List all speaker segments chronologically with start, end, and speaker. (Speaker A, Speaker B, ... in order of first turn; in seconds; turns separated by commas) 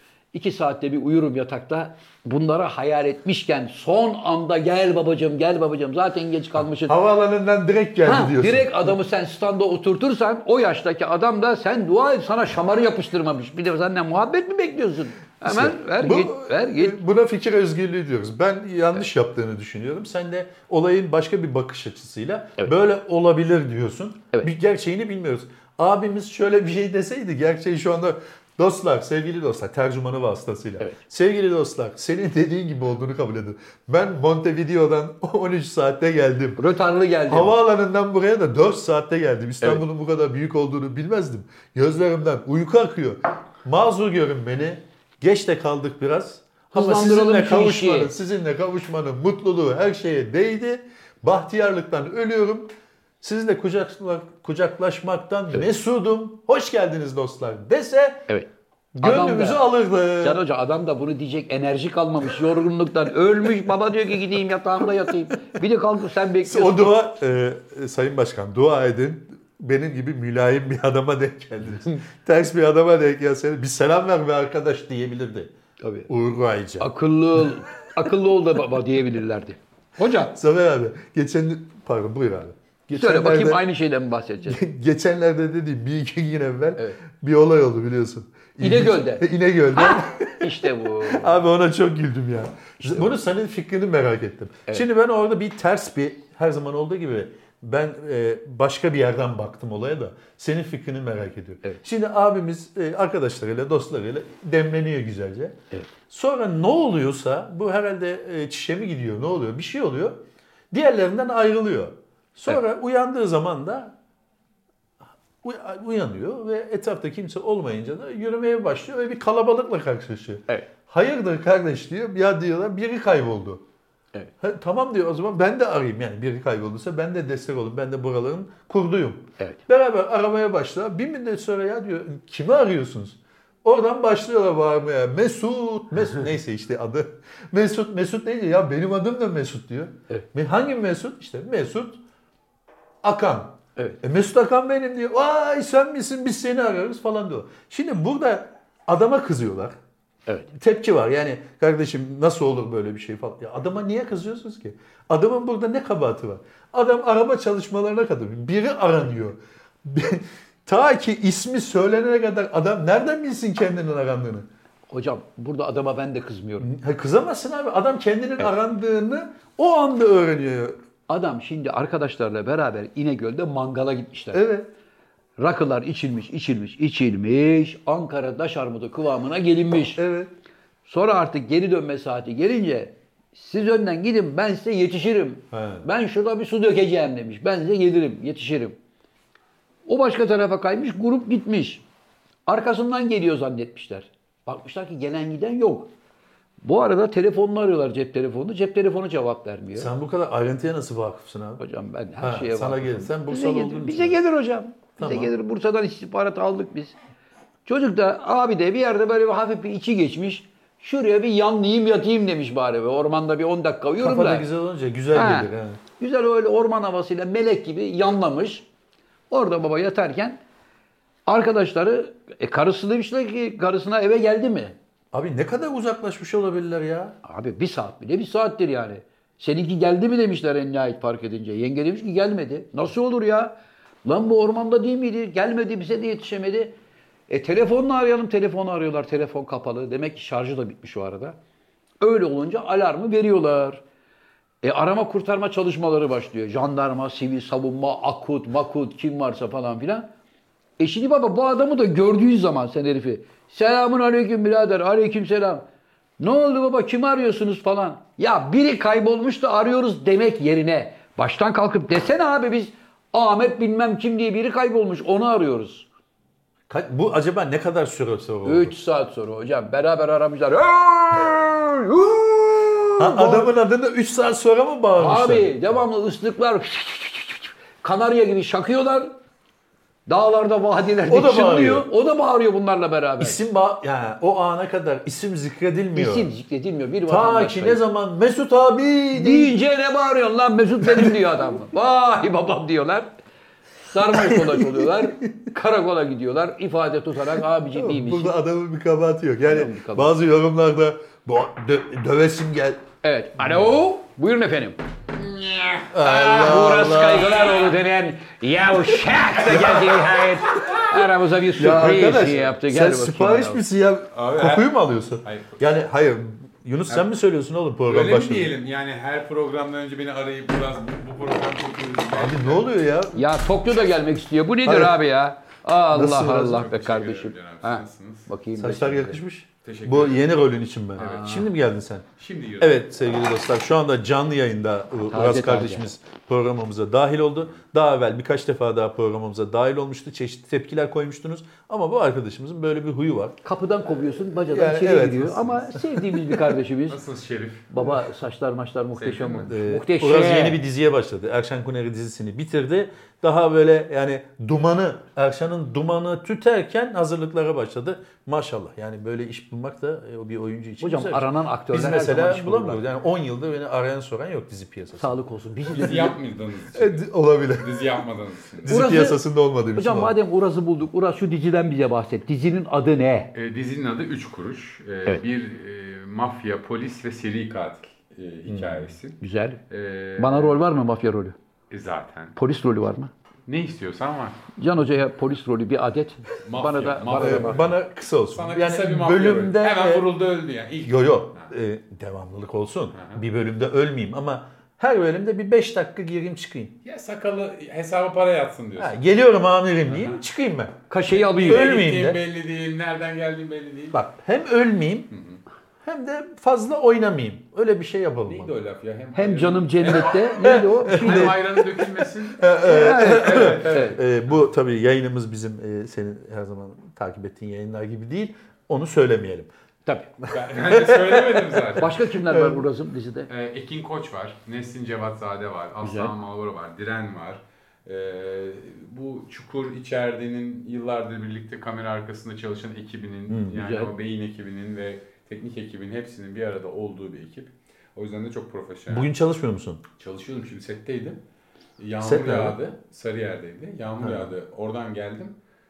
Speaker A: 0.3-7.0, Speaker B: 6.8-8.9, Speaker A: 8.0-17.0, Speaker B: 15.4-36.6, Speaker A: 36.6-37.5, Speaker B: 37.3-52.7, Speaker A: 46.7-48.1, Speaker B: 53.2-58.3, Speaker B: 59.0-60.4, Speaker A: 59.0-59.6, Speaker A: 60.2-67.0, Speaker B: 66.4-75.5, Speaker A: 75.8-76.1, Speaker B: 76.1-76.9, Speaker A: 76.8-80.3, Speaker B: 80.3-83.6, Speaker A: 82.9-84.6, Speaker B: 84.5-113.9, Speaker A: 88.6-91.4, Speaker B: 115.4-123.6, Speaker B: 124.4-142.0, Speaker B: 143.0-149.8, Speaker B: 150.5-164.5, Speaker A: 164.9-166.7, Speaker B: 166.6-170.8, Speaker A: 171.1-174.4, Speaker B: 174.3-174.7, Speaker A: 175.4-180.0, Speaker B: 180.0-180.3, Speaker A: 180.8-188.8, Speaker B: 185.5-185.8, Speaker A: 189.8-191.8, Speaker A: 192.4-195.9, Speaker A: 196.6-199.9, Speaker B: 199.7-201.6, Speaker A: 201.6-206.9, Speaker B: 202.2-204.2, Speaker B: 205.0-205.3, Speaker A: 207.7-214.5, Speaker B: 214.0-215.8, Speaker A: 215.1-218.7, Speaker A: 219.3-220.4, Speaker A: 221.3-224.8, Speaker B: 225.1-227.2, Speaker A: 227.2-233.5, Speaker A: 234.0-236.7, Speaker A: 237.3-241.4, Speaker A: 242.0-243.8, Speaker A: 244.6-250.1, Speaker A: 250.8-255.6, Speaker A: 256.2-265.9, Speaker B: 266.7-268.7, Speaker A: 268.4-273.5, Speaker B: 273.0-275.5, Speaker A: 275.0-279.1, Speaker A: 280.1-283.4, Speaker B: 281.1-281.9, Speaker B: 283.2-286.3, Speaker A: 285.9-287.8, Speaker B: 287.1-289.5, Speaker A: 289.1-293.1, Speaker B: 290.8-291.2, Speaker A: 293.9-298.4, Speaker B: 294.1-295.3, Speaker B: 297.7-302.8, Speaker A: 299.4-300.1, Speaker A: 303.0-304.8, Speaker B: 303.4-303.7, Speaker C: 305.1-305.9, Speaker B: 305.9-307.4, Speaker A: 306.0-313.6, Speaker C: 309.0-310.8, Speaker B: 309.4-309.9, Speaker B: 311.6-318.5, Speaker C: 314.1-315.6, Speaker C: 317.9-322.7, Speaker B: 322.1-323.2, Speaker A: 323.1-329.2, Speaker B: 324.6-325.0, Speaker B: 325.9-326.7, Speaker C: 326.4-328.3, Speaker B: 328.6-332.1, Speaker C: 329.6-330.3, Speaker C: 331.0-331.5, Speaker A: 331.0-331.4, Speaker C: 332.2-333.0, Speaker B: 332.6-343.4, Speaker A: 335.1-335.9, Speaker A: 343.4-347.0, Speaker B: 344.1-346.6, Speaker C: 346.9-347.7, Speaker A: 347.7-350.6, Speaker C: 349.0-349.5, Speaker B: 349.5-365.2, Speaker A: 360.8-362.8, Speaker A: 365.0-366.2, Speaker C: 365.7-368.8, Speaker B: 365.8-366.1, Speaker B: 366.7-367.9, Speaker B: 368.6-370.1, Speaker A: 368.7-369.2, Speaker A: 369.7-373.3, Speaker C: 373.3-379.2, Speaker B: 378.5-378.9, Speaker A: 379.2-379.6, Speaker C: 379.7-380.6, Speaker A: 380.2-381.4, Speaker C: 381.7-382.4, Speaker A: 382.4-383.1, Speaker C: 383.5-384.4, Speaker A: 384.6-387.7, Speaker C: 386.4-387.8, Speaker B: 387.2-390.1, Speaker C: 388.3-391.5, Speaker B: 390.8-396.7, Speaker C: 392.9-393.2, Speaker C: 396.8-399.0, Speaker B: 398.8-400.7, Speaker C: 399.9-400.2, Speaker A: 400.9-401.7, Speaker C: 401.1-404.0, Speaker B: 401.4-402.2, Speaker B: 403.9-405.1, Speaker C: 405.1-405.4, Speaker B: 405.8-408.6, Speaker C: 408.2-414.0, Speaker A: 409.1-411.4, Speaker B: 410.4-419.5, Speaker A: 412.6-414.0, Speaker B: 420.2-422.6, Speaker C: 420.3-422.0, Speaker A: 421.8-423.3, Speaker C: 423.3-439.1, Speaker A: 425.8-426.1, Speaker B: 433.3-433.6, Speaker A: 433.5-433.9, Speaker B: 438.9-439.8, Speaker C: 440.0-441.2, Speaker C: 441.8-445.4, Speaker B: 442.0-442.6, Speaker B: 444.0-444.3